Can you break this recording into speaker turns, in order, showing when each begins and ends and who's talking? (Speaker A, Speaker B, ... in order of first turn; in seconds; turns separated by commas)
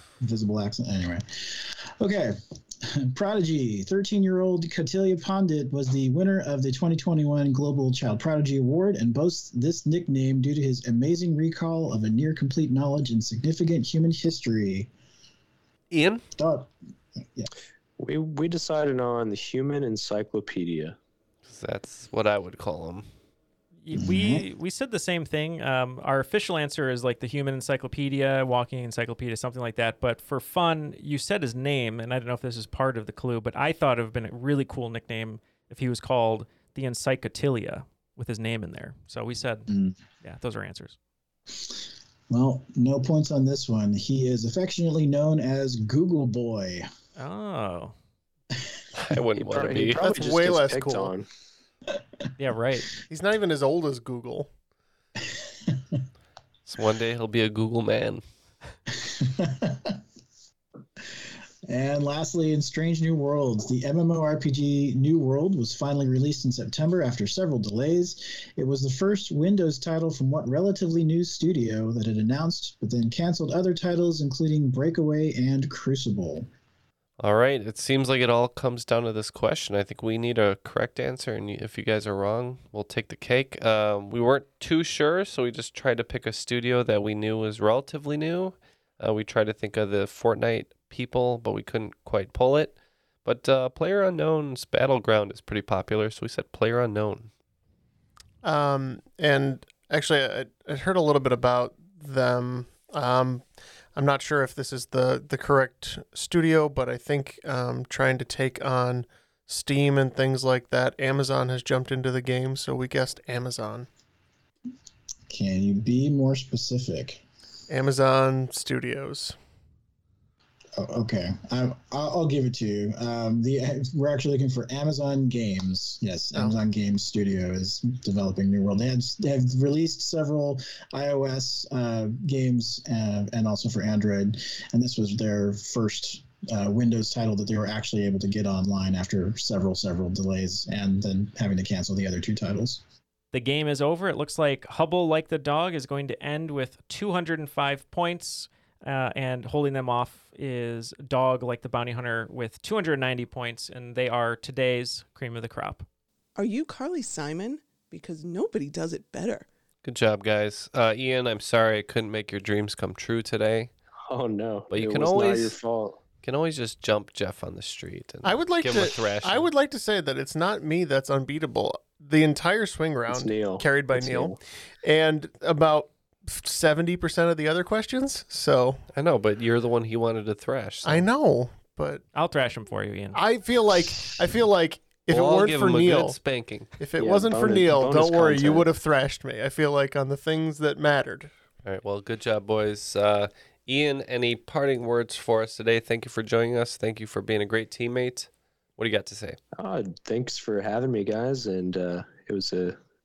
Speaker A: 0.2-14.9, Speaker B: 15.9-16.2, Speaker A: 16.4-16.7, Speaker C: 18.0-20.9, Speaker B: 21.5-23.1, Speaker D: 23.8-39.7, Speaker A: 23.9-24.4, Speaker A: 39.7-40.0, Speaker D: 40.2-41.0, Speaker A: 42.3-46.9, Speaker D: 47.2-47.9, Speaker B: 49.0-50.0, Speaker C: 49.4-51.2, Speaker E: 50.0-51.1, Speaker D: 52.4-52.9, Speaker E: 53.1-54.5, Speaker A: 55.6-56.0, Speaker B: 56.6-58.2, Speaker A: 58.9-60.0, Speaker A: 61.7-76.5, Speaker B: 77.2-97.3, Speaker E: 98.4-113.9, Speaker A: 115.3-117.2, Speaker E: 117.7-119.3, Speaker A: 120.8-142.8, Speaker D: 143.3-155.8, Speaker F: 156.3-159.4, Speaker B: 159.8-163.7, Speaker C: 164.1-166.0, Speaker B: 164.7-165.6, Speaker B: 166.2-169.5, Speaker E: 168.2-178.8, Speaker C: 173.1-174.4, Speaker B: 178.9-181.1, Speaker E: 180.8-182.0, Speaker D: 182.1-183.2, Speaker E: 183.1-186.2, Speaker B: 185.1-186.7, Speaker E: 186.8-191.3, Speaker C: 187.0-188.7, Speaker B: 191.6-199.4, Speaker C: 199.6-202.8